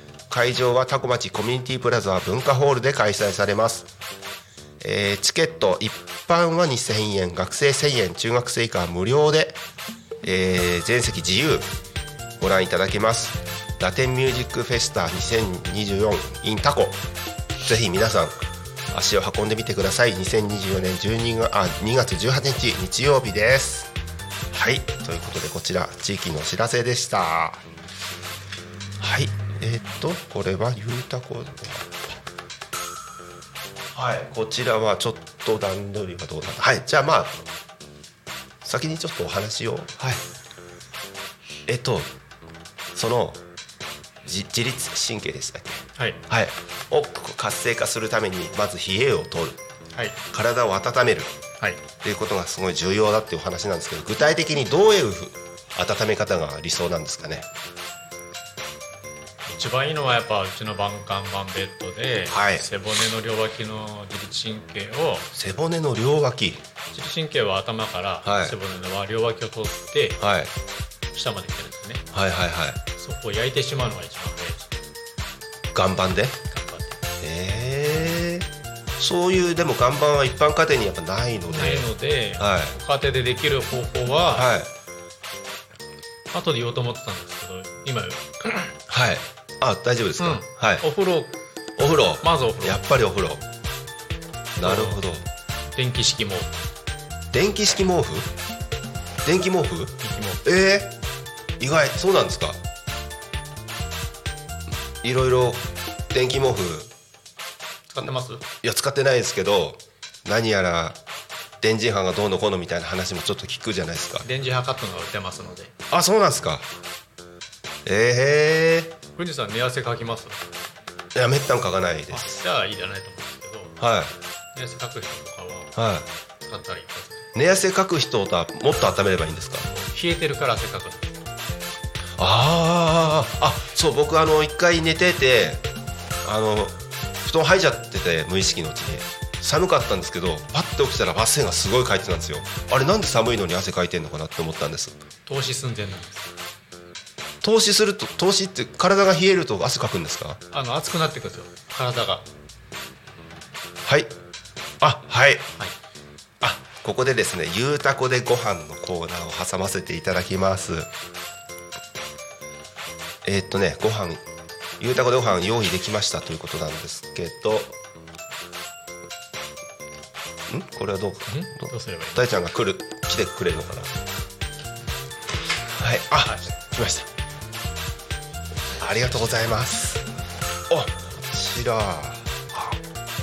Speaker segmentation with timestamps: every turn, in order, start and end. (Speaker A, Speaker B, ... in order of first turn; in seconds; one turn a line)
Speaker A: 0.3-3.9
Speaker A: 4.8-9.6
Speaker A: 10.2-11.7
Speaker A: 12.4-17.0
Speaker A: 17.6-18.4
Speaker A: 18.9-23.9
Speaker A: 24.5-27.6
Speaker A: 29.0-31.9
Speaker A: 33.9-37.4
Speaker A: 38.6-40.2
Speaker A: 41.7-42.1
Speaker A: 42.9-43.4
Speaker A: 44.2-49.6
Speaker B: 45.9-46.2
Speaker A: 50.3-51.3
Speaker A: 52.0-57.5
Speaker B: 59.5-65.3
Speaker A: 62.3-62.7
Speaker A: 65.3-66.6
Speaker B: 66.9-70.2
Speaker A: 68.2-68.6
Speaker A: 70.2-70.5
Speaker B: 71.1-72.0
Speaker A: 72.1-72.8
Speaker B: 73.0-74.8
Speaker A: 75.7-76.4
Speaker B: 76.5-77.0
Speaker A: 77.2-78.5
Speaker A: 79.0-82.8
Speaker B: 81.5-84.5
Speaker A: 84.3-84.7
Speaker B: 86.3-88.8
Speaker A: 88.9-90.8
Speaker B: 90.2-91.3
Speaker A: 91.8-93.4
Speaker B: 92.2-92.8
Speaker A: 94.6-95.2
Speaker B: 94.6-95.0
Speaker B: 95.7-96.6
Speaker A: 97.3-98.3
Speaker A: 99.2-100.9
Speaker B: 100.0-100.4
Speaker A: 101.6-102.6
Speaker A: 105.0-106.9
Speaker B: 107.9-108.4
Speaker A: 108.6-111.0
Speaker A: 111.6-114.3
Speaker B: 114.2-115.7
Speaker A: 115.9-116.7
Speaker A: 117.8-118.9
Speaker B: 119.2-120.4
Speaker A: 121.1-122.3
Speaker B: 122.1-123.8
Speaker A: 123.8-124.1
Speaker B: 124.5-125.8
Speaker A: 125.8-126.1
Speaker B: 126.4-127.3
Speaker A: 127.3-129.7
Speaker B: 129.7-131.1
Speaker A: 132.2-135.7
Speaker A: 136.2-145.0
Speaker B: 145.3-146.3
Speaker A: 147.4-150.4
Speaker B: 150.5-152.3
Speaker A: 153.8-154.1
Speaker A: 154.8-155.5
Speaker A: 156.4-160.9
Speaker A: 163.2-164.2
Speaker A: 164.8-167.8
Speaker A: 170.5-174.0
Speaker B: 171.3-172.2
Speaker A: 175.8-177.1
Speaker B: 176.2-176.5
Speaker A: 178.8-180.0
Speaker B: 178.8-179.6
Speaker A: 180.7-182.8